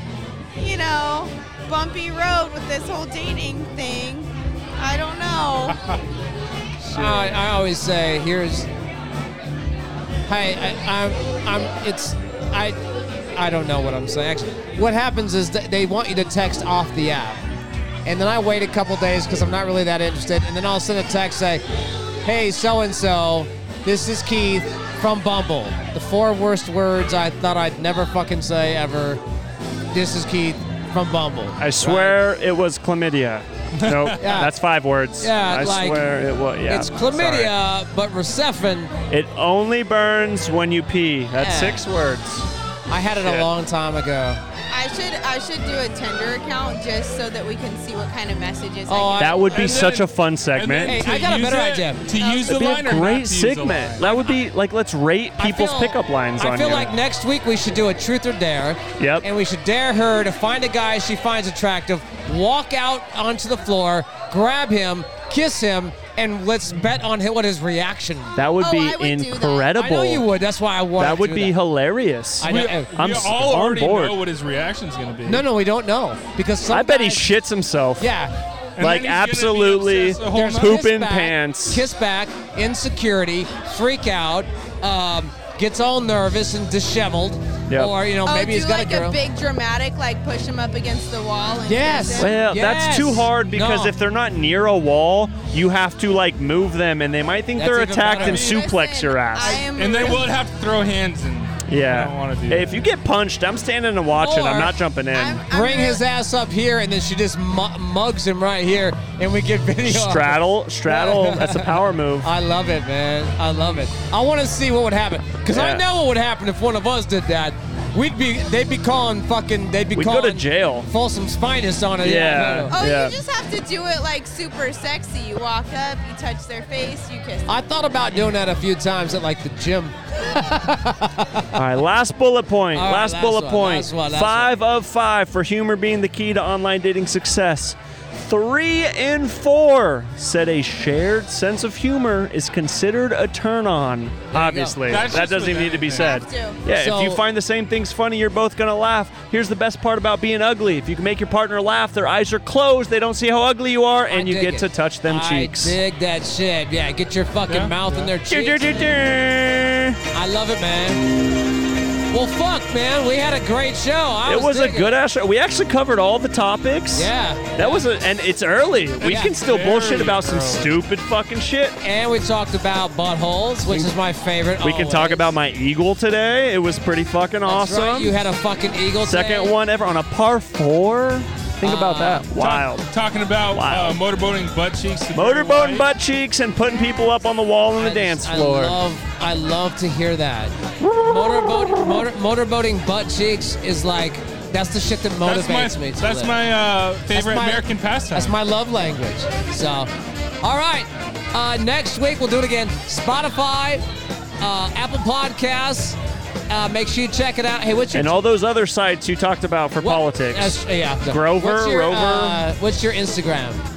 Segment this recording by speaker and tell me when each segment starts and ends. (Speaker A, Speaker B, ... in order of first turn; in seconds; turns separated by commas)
Speaker A: 0.6-5.8, Speaker B: 6.9-8.7, Speaker C: 7.0-7.4, Speaker B: 10.3-12.8, Speaker B: 13.3-17.4, Speaker B: 18.1-21.6, Speaker B: 22.2-29.2, Speaker B: 29.9-32.2, Speaker D: 31.6-37.5, Speaker C: 33.8-34.1, Speaker B: 34.2-34.5, Speaker B: 35.2-36.1, Speaker B: 36.7-38.9, Speaker D: 39.1-42.5, Speaker B: 41.4-41.8, Speaker B: 42.9-44.4, Speaker D: 43.2-43.5, Speaker A: 44.7-49.8, Speaker B: 48.9-49.7, Speaker D: 49.2-51.0, Speaker C: 49.5-54.1, Speaker B: 50.8-52.1, Speaker A: 52.1-52.9, Speaker D: 52.5-57.0, Speaker B: 55.4-68.4, Speaker D: 59.0-59.3, Speaker D: 68.4-70.3, Speaker A: 68.6-69.7, Speaker B: 69.8-71.6, Speaker D: 71.0-74.2, Speaker B: 72.4-72.9, Speaker C: 72.5-75.5, Speaker B: 75.2-77.3, Speaker D: 76.7-78.1, Speaker B: 78.0-78.3, Speaker C: 78.8-80.8, Speaker D: 78.8-81.8, Speaker B: 80.3-89.2, Speaker D: 87.7-88.0, Speaker A: 88.2-92.4, Speaker B: 91.7-94.0, Speaker D: 92.2-99.6, Speaker B: 97.6-98.6, Speaker C: 98.1-98.5, Speaker A: 98.4-100.3, Speaker C: 99.7-102.8, Speaker D: 101.7-105.4, Speaker B: 104.2-104.8, Speaker A: 105.1-106.0, Speaker B: 105.5-122.7, Speaker D: 109.8-112.3, Speaker D: 115.5-115.8, Speaker D: 120.0-120.9, Speaker D: 122.0-123.2, Speaker A: 122.7-127.5, Speaker B: 127.5-131.5, Speaker D: 131.5-155.8, Speaker B: 132.7-134.6, Speaker B: 144.3-145.1, Speaker C: 144.9-146.2, Speaker A: 145.9-146.6, Speaker B: 146.7-147.2, Speaker B: 154.1-158.9, Speaker C: 157.5-157.8, Speaker D: 158.2-160.0, Speaker B: 160.1-161.0, Speaker B: 162.1-165.0, Speaker D: 164.2-171.8, Speaker B: 166.9-167.8, Speaker B: 169.0-169.3, Speaker C: 169.1-170.8, Speaker B: 171.8-175.3, Speaker D: 174.6-178.2, Speaker B: 177.5-179.6, Speaker D: 179.0-182.9, Speaker B: 181.6-182.3, Speaker C: 182.4-185.9, Speaker D: 183.5-184.0, Speaker D: 185.2-188.8, Speaker B: 187.8-196.4, Speaker D: 190.8-192.1, Speaker C: 195.2-198.4, Speaker B: 197.1-199.9, Speaker B: 200.4-203.8, Speaker B: 204.4-206.0, Speaker B: 206.5-208.2, Speaker D: 207.9-212.4, Speaker B: 209.8-213.6